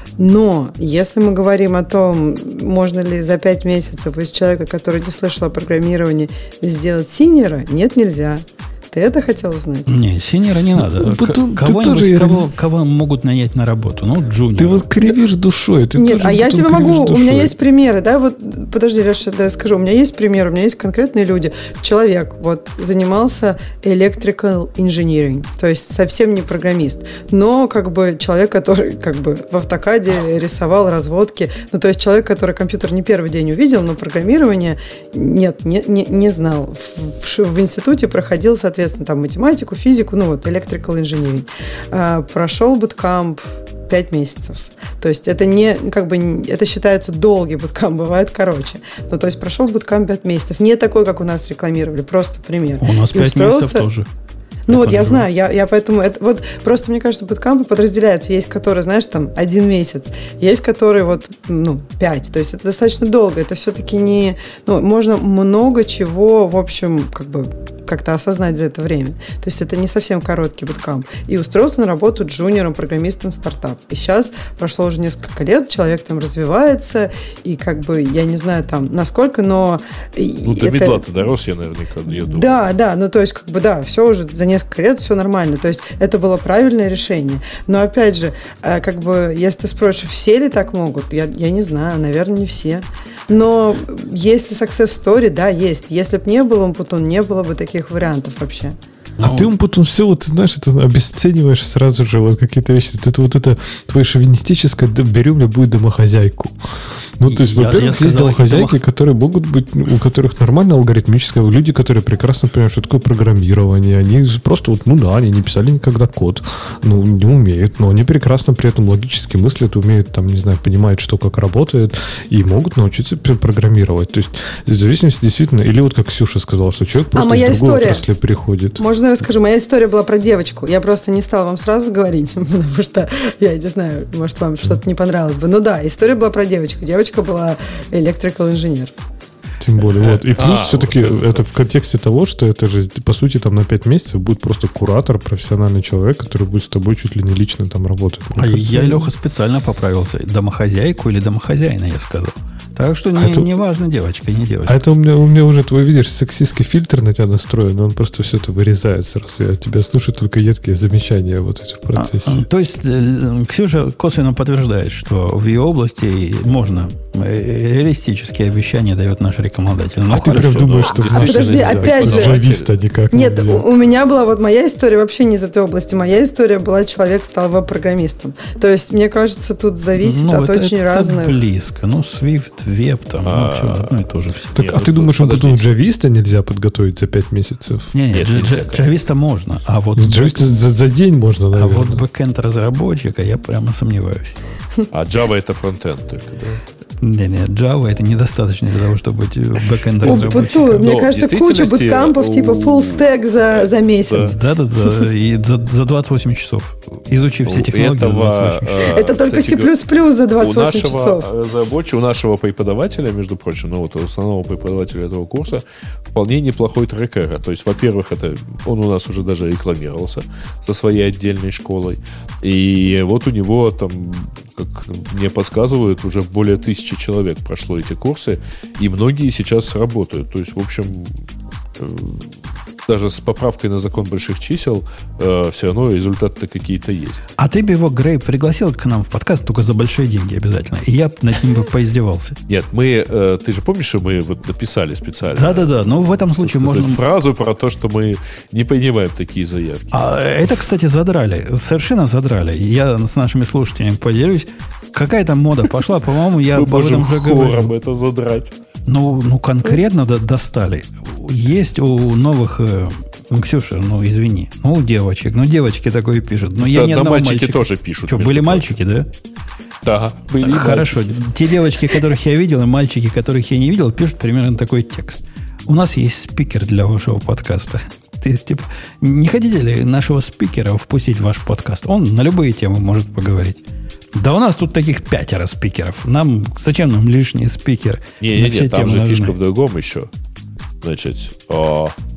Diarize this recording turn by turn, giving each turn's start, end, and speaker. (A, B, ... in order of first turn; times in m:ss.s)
0:00.2-0:09.9 A
0:09.9-0:15.0 B
0:10.8-0:12.5 C
0:14.6-0:17.5 C
0:16.0-0:53.9 A
0:52.8-0:54.1 B
0:54.7-1:21.0 A
0:54.7-0:55.3 B
1:20.4-1:22.7 D
1:22.2-1:38.8 A
1:39.2-1:39.5 B
1:39.2-1:46.6 C
1:47.2-2:08.8 C
1:47.2-1:48.8 B
2:07.2-2:08.0 A
2:08.8-2:18.9 A
2:19.6-2:29.1 C
2:20.4-2:21.5 D
2:28.4-2:34.8 B
2:33.2-2:33.5 C
2:34.7-2:42.4 C
2:42.0-2:50.8 B
2:50.1-2:53.7 C
2:50.4-2:52.7 D
2:51.1-2:52.4 A
2:53.1-3:01.4 A
3:00.0-3:04.6 B
3:03.2-3:05.7 D
3:04.6-3:07.9 C
3:07.9-3:10.6 B
3:08.1-3:08.9 D
3:10.0-3:12.0 C
3:11.5-3:14.3 B
3:14.9-3:16.6 D
3:17.0-3:20.9 B
3:20.0-3:24.3 D
3:20.0-3:24.4 A
3:24.3-3:29.0 B
3:27.5-3:29.8 D
3:28.9-3:31.3 A
3:30.4-3:51.1 D
3:51.8-3:52.3 D
3:52.9-3:57.2 D
3:57.4-4:02.4 B
4:02.5-4:10.0 D
4:05.3-4:07.0 B
4:09.9-4:17.7 B
4:16.5-4:18.6 D
4:18.9-4:29.1 B
4:26.6-4:28.8 D
4:29.8-4:31.2 D
4:30.4-4:43.6 B
4:44.2-4:49.4 B
4:48.2-4:50.1 D
4:50.8-4:51.9 D